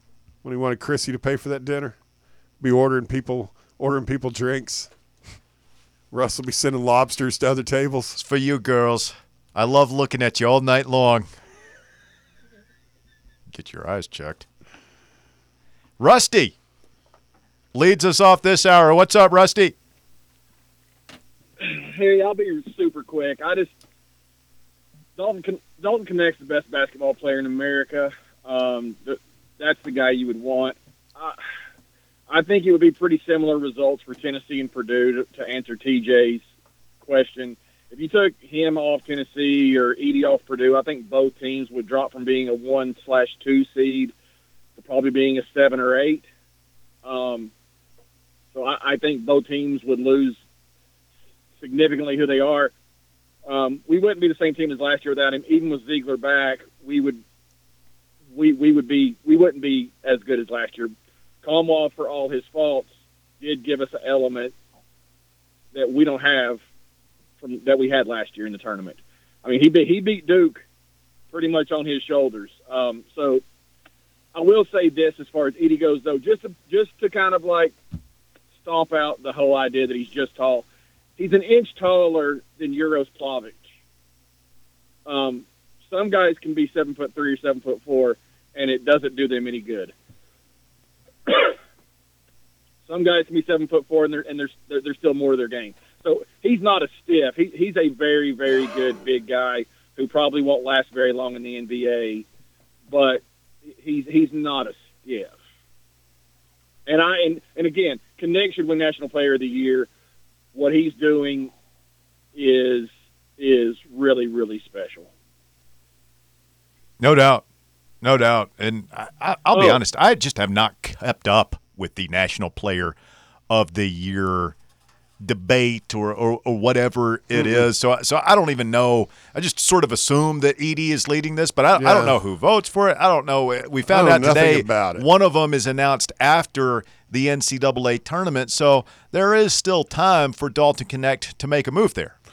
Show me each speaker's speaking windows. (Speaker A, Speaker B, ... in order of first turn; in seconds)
Speaker A: 0.4-1.9, 2.6-4.9, 6.1-8.2, 127.3-127.7, 131.7-132.2, 133.8-135.1
Speaker B: 8.2-11.3, 13.5-14.4, 16.0-16.6, 17.7-19.7, 117.0-117.4, 118.0-123.0, 123.5-124.5, 125.2-142.2
Speaker C: 21.6-23.7, 25.2-31.4, 32.3-36.4, 37.0-44.1, 44.8-46.2, 47.0-47.5, 48.5-50.4, 51.6-52.7, 53.5-57.2, 58.3-64.5, 65.7-66.6, 67.4-70.6, 71.3-73.4, 74.3-77.7, 78.6-80.7, 81.2-83.6, 85.0-89.9, 91.3-91.5, 92.9-102.2, 102.9-103.2, 103.8-105.3, 106.8-109.9, 110.5-111.5, 112.3-115.1, 119.5-119.8